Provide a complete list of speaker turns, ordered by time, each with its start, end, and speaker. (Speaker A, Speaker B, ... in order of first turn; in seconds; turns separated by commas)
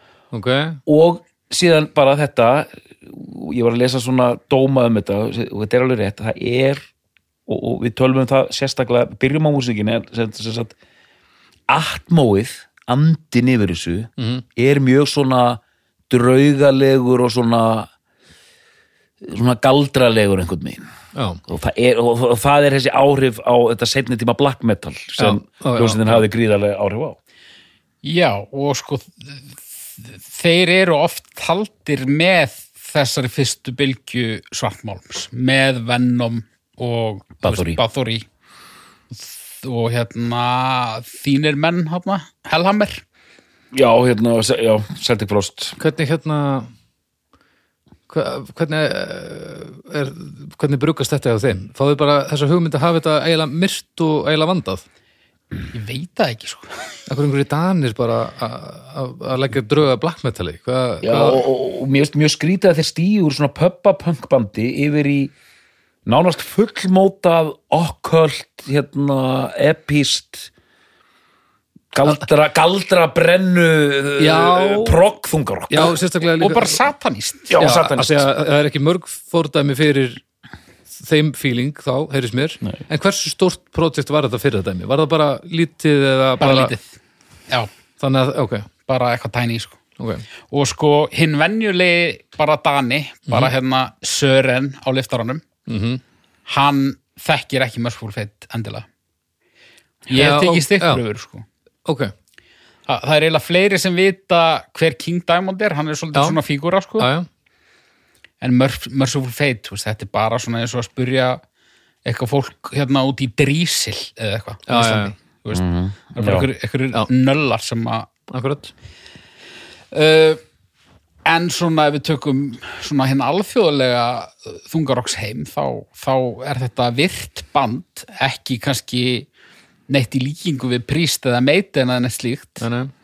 Speaker A: 0.3-0.8, Speaker B: 0.9-6.8, Speaker B: 7.5-10.7, Speaker B: 11.7-17.9, Speaker A: 14.2-14.4, Speaker B: 19.2-20.8, Speaker A: 21.1-21.4, Speaker B: 21.5-27.2, Speaker A: 25.2-26.2, Speaker C: 28.0-38.2, Speaker B: 37.4-37.8, Speaker C: 39.1-43.0, Speaker B: 43.7-45.8, Speaker A: 45.8-46.7, Speaker A: 48.1-54.8, Speaker C: 55.7-56.7, Speaker A: 57.1-61.4, Speaker B: 61.0-65.3, Speaker B: 66.0-70.5, Speaker B: 71.9-76.0, Speaker A: 74.2-75.0, Speaker A: 75.7-76.8, Speaker C: 76.4-77.6, Speaker B: 77.5-78.3, Speaker A: 77.5-80.2, Speaker A: 80.9-86.7, Speaker C: 86.4-86.9, Speaker A: 88.0-88.7, Speaker C: 88.9-89.8, Speaker A: 90.0-90.2, Speaker C: 90.5-95.4, Speaker A: 95.7-96.0, Speaker C: 96.5-98.9, Speaker C: 100.1-101.5, Speaker A: 100.1-101.0, Speaker A: 101.8-102.1, Speaker C: 102.9-107.1, Speaker A: 107.0-107.3, Speaker C: 108.4-111.4, Speaker C: 112.0-118.1, Speaker A: 114.7-115.1, Speaker B: 115.5-116.5, Speaker A: 118.3-118.7, Speaker C: 119.9-120.4, Speaker C: 121.2-129.3, Speaker C: 129.9-132.6, Speaker A: 132.6-132.9